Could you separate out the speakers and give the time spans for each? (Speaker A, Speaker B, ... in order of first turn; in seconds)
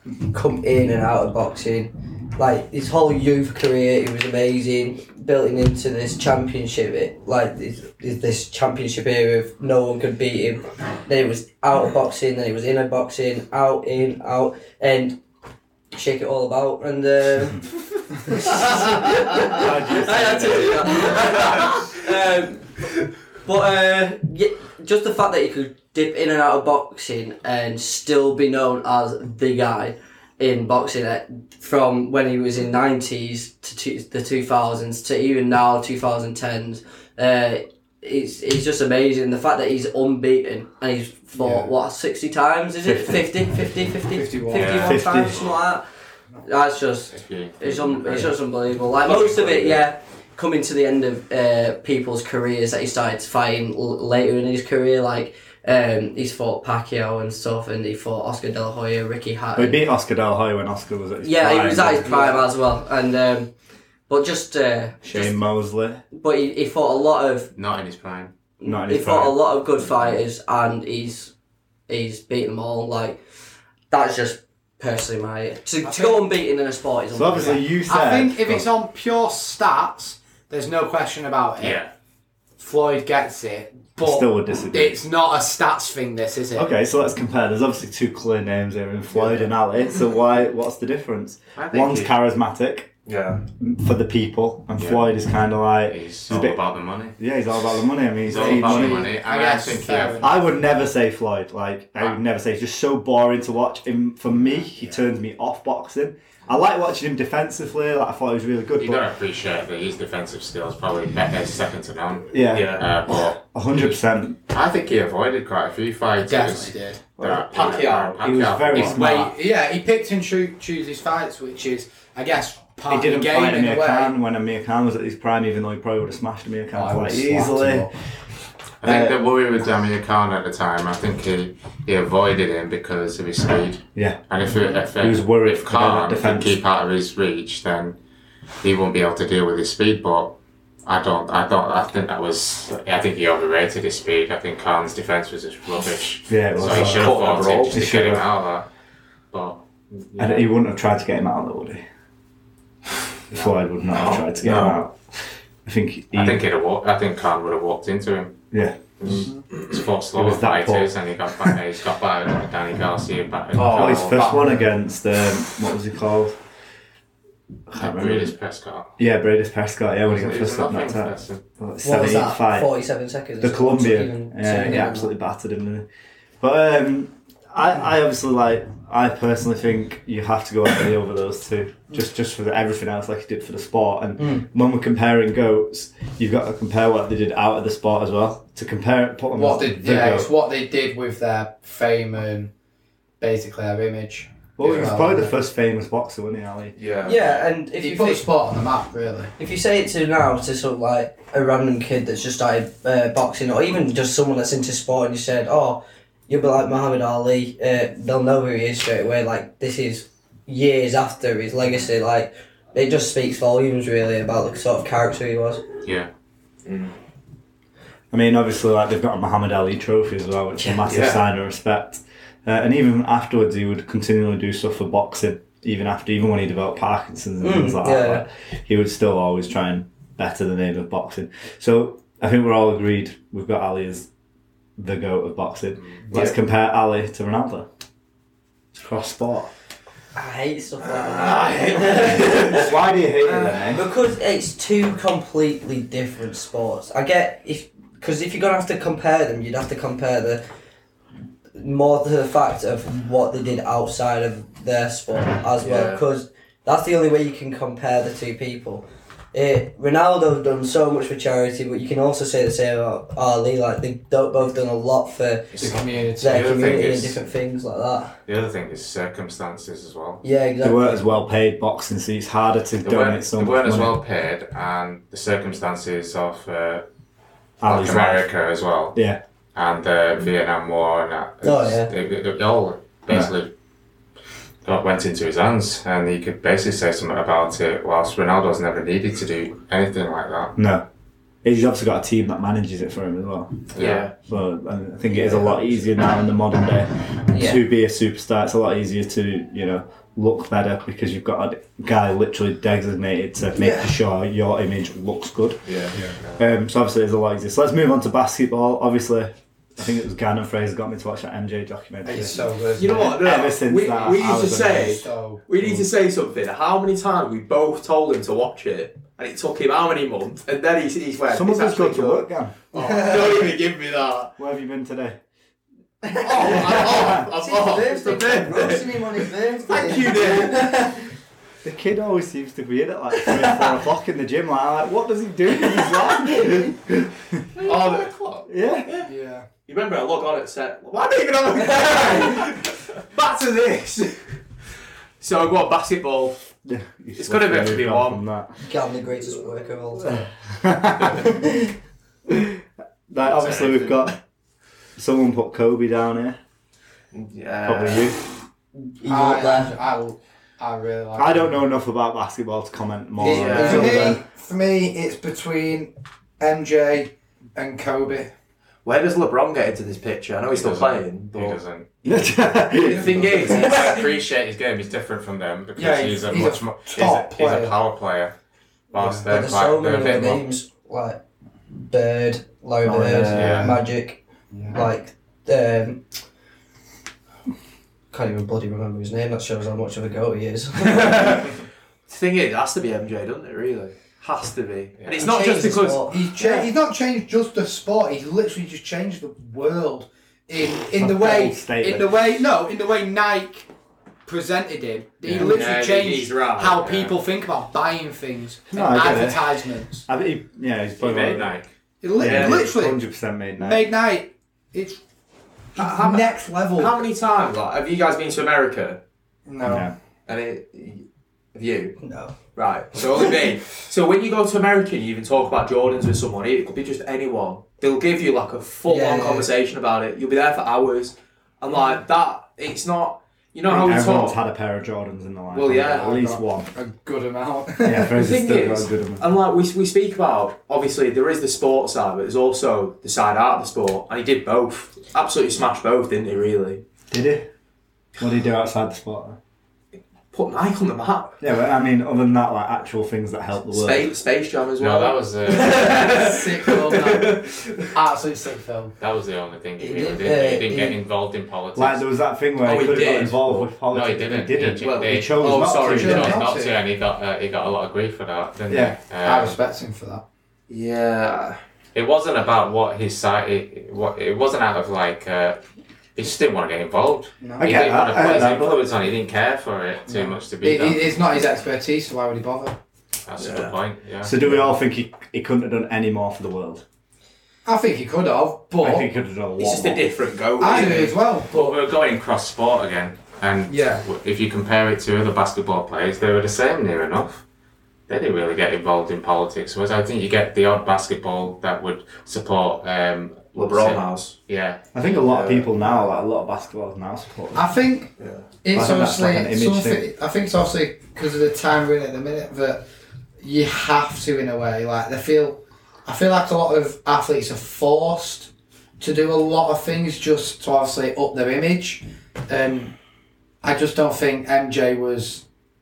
Speaker A: 0.2-15.2, 15.9-17.7, 18.2-22.9, 23.4-45.8, 46.4-59.8, 61.2-63.5, 64.1-65.3, 66.1-67.5, 68.6-71.3, 71.9-73.2, 73.9-77.6, 171.8-175.1, 184.2-184.4, 197.0-198.2, 199.4-215.6, 227.4-228.2, 240.1-242.7, 243.6-250.4, 251.6-265.5, 266.2-268.1, 270.2-271.0, 281.4-281.9, 295.1-295.6, 297.3-297.6, 303.6-303.9, 326.0-331.0, 333.1-333.6, 335.8-336.7, 348.6-350.3, 351.1-351.7, 358.9-359.8, 363.5-364.2, 379.3-386.0, 388.1-391.5, 395.1-396.1, 422.0-422.3, 428.9-429.5, 459.8-461.0
Speaker B: 18.6-21.3, 42.8-43.3, 44.8-45.4, 59.5-62.1, 65.0-66.0, 68.6-69.4, 77.1-78.7, 84.0-85.0, 86.5-92.9, 93.6-96.6, 97.2-99.1, 100.2-109.0, 112.3-114.4, 117.2-117.5, 118.2-119.3, 122.9-127.9, 128.8-129.2, 133.9-134.2, 134.9-136.6, 146.3-147.1, 147.7-148.2, 150.2-151.8, 153.3-156.4, 158.5-159.2, 160.1-161.6, 163.6-166.3, 167.7-168.3, 169.0-172.7, 173.4-175.8, 176.4-190.3, 194.6-196.7, 218.1-234.1, 234.8-237.7, 238.8-239.5, 242.5-243.8, 270.6-273.9, 277.6-278.3, 278.9-279.2, 290.6-290.8, 291.4-305.7, 306.4-315.0, 315.6-315.9, 321.3-322.6, 324.4-325.2, 326.7-327.2, 331.6-337.4, 338.5-338.9, 346.6-348.6, 350.0-351.4, 352.3-354.2, 355.0-356.4, 357.6-358.3, 361.1-364.2, 372.0-373.3, 382.9-383.6, 400.9-402.4, 405.2-405.6, 408.7-411.5, 412.2-413.9, 419.6-419.9, 433.7-436.7, 437.8-439.2, 447.1-447.5, 448.2-449.4, 451.4-454.1, 461.8-466.4, 468.7-469.0, 477.6-478.8, 484.2-486.8, 488.8-490.0, 504.9-507.7, 508.7-510.0
Speaker C: 41.4-41.7, 44.1-44.9, 62.1-62.4, 75.8-76.2, 77.9-81.8, 82.6-86.7, 98.3-100.4, 116.2-117.0, 118.7-124.1, 126.7-127.9, 189.3-192.5, 193.2-195.3, 197.8-199.3, 265.6-266.7, 312.0-313.2, 314.1-315.4, 339.0-339.4, 359.1-361.6, 363.2-368.3, 372.8-373.7, 375.8-377.8, 378.9-379.3, 383.5-383.8, 384.5-384.8, 395.4-403.7, 404.2-410.0, 412.0-413.0, 413.6-415.0, 415.8-417.1, 419.4-419.9, 436.0-438.1, 455.9-457.4, 457.9-458.9, 465.9-466.8, 469.2-470.2, 477.4-478.8, 480.1-482.8, 484.4-484.7, 487.6-489.1, 490.6-491.8, 493.7-494.0, 505.8-506.2, 507.5-512.8, 513.4-522.9, 523.6-525.4
Speaker D: 44.5-45.6, 47.1-48.3, 67.5-68.3, 81.6-81.9, 91.5-92.1, 94.8-95.1, 95.8-97.2, 98.2-100.3, 108.8-114.0, 114.5-119.1, 128.8-138.0, 138.6-148.7, 149.3-150.5, 153.3-153.6, 156.1-158.4, 159.0-164.3, 167.8-168.9, 170.1-171.4, 235.8-236.0, 265.5-267.2, 268.3-270.2, 272.8-276.8, 277.6-279.0, 279.5-283.5, 284.6-290.6, 293.7-294.1, 353.3-353.9, 370.5-371.9, 373.4-378.3, 378.9-380.4, 383.3-383.7, 395.0-395.2, 406.8-407.1, 411.0-411.7, 454.8-456.0, 459.0-462.1, 463.9-469.6, 471.9-475.6, 476.1-481.1, 483.2-484.3, 491.5-497.4, 498.1-504.9
Speaker E: 49.0-49.8, 89.1-89.5, 93.0-93.5, 112.5-112.9, 117.4-118.2, 146.6-147.9, 153.9-154.8, 163.5-164.7, 196.7-197.5, 216.6-216.9, 220.8-221.2, 240.9-242.6, 255.6-256.0, 293.8-294.1, 305.6-305.9, 312.8-324.3, 326.2-330.8, 337.6-339.1, 339.6-344.3, 345.2-346.4, 347.1-348.2, 357.1-358.2, 363.2-364.1, 368.8-371.6, 372.7-374.1, 390.8-391.5, 392.1-396.6, 405.4-406.9, 412.2-412.7, 415.8-419.0, 420.2-422.0, 422.5-434.4, 435.5-436.2, 438.1-446.8, 450.3-451.4, 453.7-457.9, 462.6-463.7, 464.8-466.3, 470.7-471.6, 483.4-483.8, 489.6-491.2, 503.5-504.4, 505.0-505.7, 508.2-508.5